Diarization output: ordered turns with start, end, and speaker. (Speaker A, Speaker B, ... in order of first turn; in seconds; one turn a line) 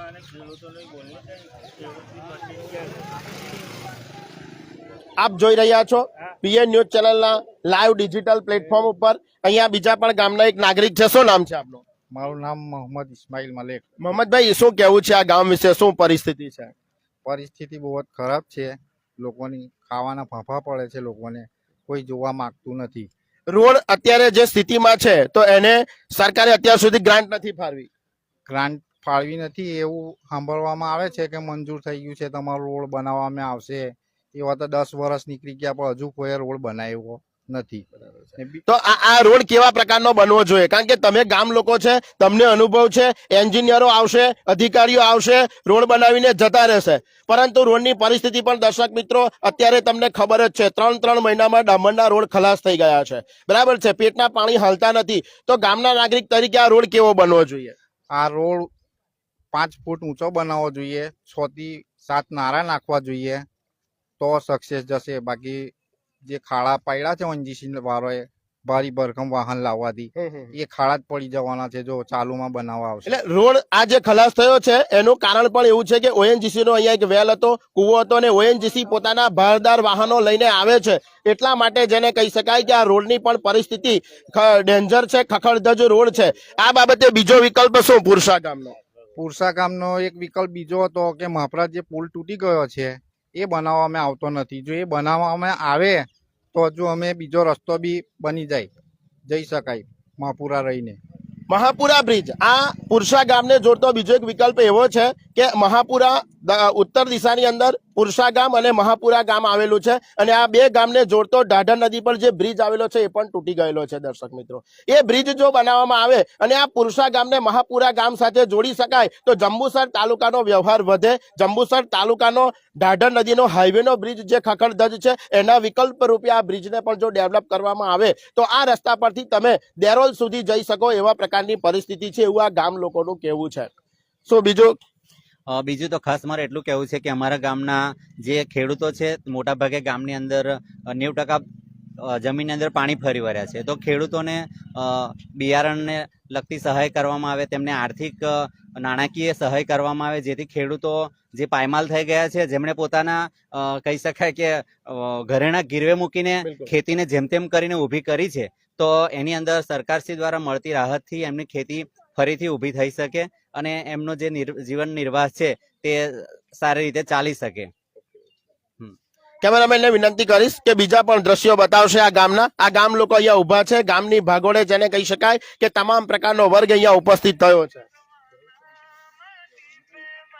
Speaker A: 5.2-11.8
Speaker B: 12.1-13.9
Speaker A: 14.0-16.7
Speaker B: 17.2-23.1
Speaker A: 23.5-27.9
Speaker B: 28.5-38.6
Speaker A: 38.0-57.7
Speaker B: 58.1-58.7
Speaker B: 59.5-63.5
Speaker B: 64.2-65.7
Speaker B: 66.2-73.2
Speaker A: 70.2-70.5
Speaker A: 73.0-88.8
Speaker B: 89.2-98.7
Speaker B: 99.2-101.0
Speaker A: 101.5-133.7
Speaker A: 134.2-134.8
Speaker C: 135.5-141.4
Speaker C: 142.0-167.7
Speaker A: 156.4-156.7
Speaker A: 169.4-177.8